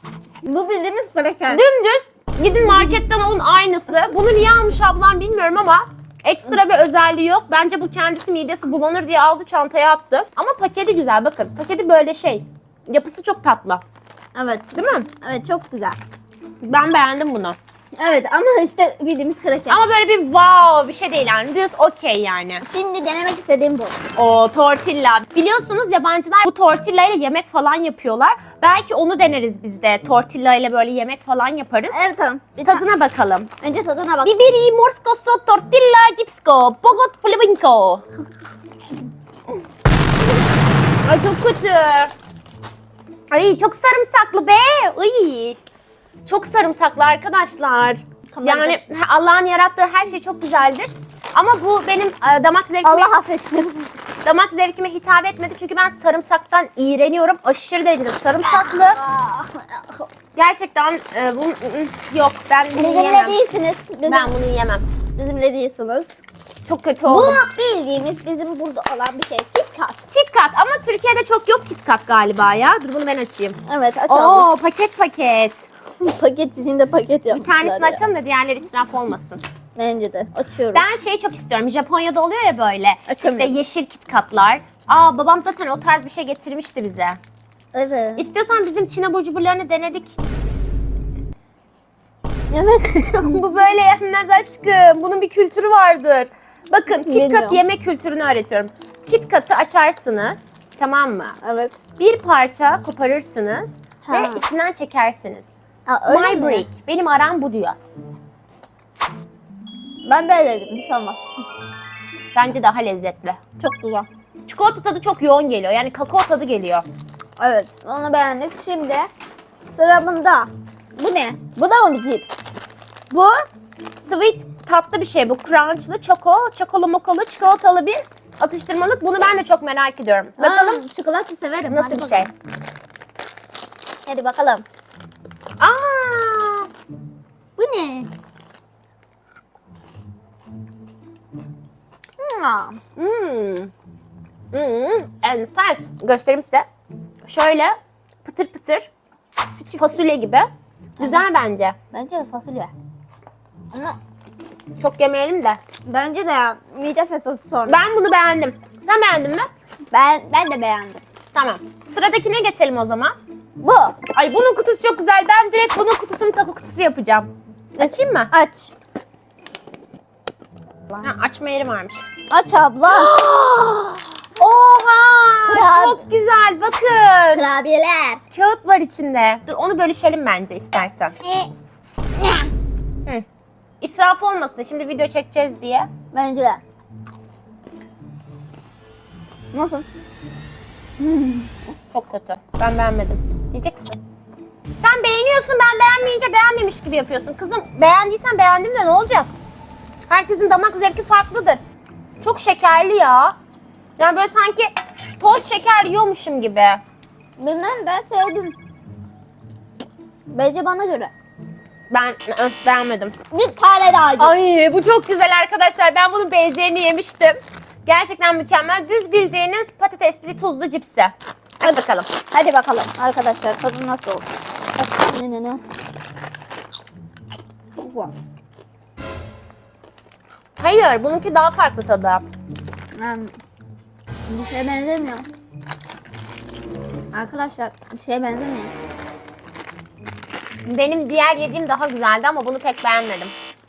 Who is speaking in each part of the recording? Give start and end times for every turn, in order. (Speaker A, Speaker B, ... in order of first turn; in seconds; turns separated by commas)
Speaker A: 0.4-1.6, Speaker B: 1.5-13.8, Speaker A: 14.3-16.0, Speaker B: 14.7-15.1, Speaker B: 16.6-17.6, Speaker A: 18.0-19.8, Speaker B: 19.7-22.6, Speaker A: 22.6-24.0, Speaker B: 24.1-32.0, Speaker A: 31.9-32.8, Speaker B: 32.6-33.5, Speaker A: 33.6-34.4, Speaker B: 34.2-38.0, Speaker B: 41.0-42.1, Speaker B: 43.3-45.6, Speaker B: 46.2-53.1, Speaker A: 48.3-48.8, Speaker A: 52.8-53.9, Speaker B: 54.2-59.0, Speaker A: 58.4-60.1, Speaker B: 60.3-63.4, Speaker A: 62.7-64.3, Speaker B: 64.0-64.8, Speaker A: 65.1-66.2, Speaker B: 66.6-67.4, Speaker A: 67.0-70.1, Speaker B: 70.1-73.6, Speaker A: 73.7-74.5, Speaker B: 74.1-75.7, Speaker A: 76.0-78.0, Speaker B: 77.3-79.4, Speaker A: 79.8-80.8, Speaker B: 80.7-87.2, Speaker A: 83.1-83.6, Speaker A: 87.7-88.2, Speaker B: 88.2-90.2, Speaker A: 92.5-93.4, Speaker B: 92.9-101.4, Speaker A: 97.0-97.6, Speaker A: 101.4-101.7, Speaker B: 102.0-107.8, Speaker A: 104.0-104.4, Speaker A: 105.8-106.7, Speaker A: 110.0-111.2, Speaker B: 112.3-113.4, Speaker A: 113.6-114.1, Speaker B: 114.5-116.8, Speaker A: 117.4-119.1, Speaker A: 119.7-122.3, Speaker B: 123.1-123.3, Speaker B: 123.9-130.8, Speaker A: 130.4-132.3, Speaker B: 131.7-132.3, Speaker A: 134.1-134.6, Speaker B: 135.6-136.7, Speaker A: 137.6-138.1, Speaker A: 142.2-142.8, Speaker B: 143.0-143.7, Speaker B: 144.5-146.7, Speaker B: 147.2-148.9, Speaker A: 149.6-150.0, Speaker B: 149.8-150.5, Speaker A: 151.0-151.2, Speaker B: 151.0-151.8, Speaker A: 151.9-152.7, Speaker A: 153.7-154.0, Speaker B: 154.8-155.6, Speaker A: 155.8-157.8, Speaker B: 157.7-159.5, Speaker A: 159.9-161.0, Speaker B: 161.3-163.2, Speaker A: 163.6-164.0, Speaker B: 164.1-168.3, Speaker A: 167.8-168.7, Speaker B: 171.0-172.0, Speaker A: 172.3-173.1, Speaker B: 172.9-177.4, Speaker A: 175.4-176.0, Speaker A: 177.3-178.2, Speaker B: 178.3-181.1, Speaker A: 181.2-181.5, Speaker A: 182.2-182.5, Speaker B: 183.8-185.9, Speaker A: 186.1-186.6, Speaker A: 189.5-189.8, Speaker A: 191.0-191.5, Speaker B: 191.9-193.9, Speaker B: 194.8-199.3, Speaker B: 200.1-201.6, Speaker B: 202.2-203.3, Speaker B: 204.0-206.8, Speaker A: 207.4-208.6, Speaker A: 210.3-211.1, Speaker B: 211.9-213.1, Speaker A: 213.3-214.3, Speaker B: 214.2-222.1, Speaker A: 222.3-225.6, Speaker A: 227.8-228.1, Speaker B: 230.6-232.2, Speaker A: 232.9-233.3, Speaker A: 234.3-235.3, Speaker A: 237.1-238.7, Speaker B: 240.7-243.3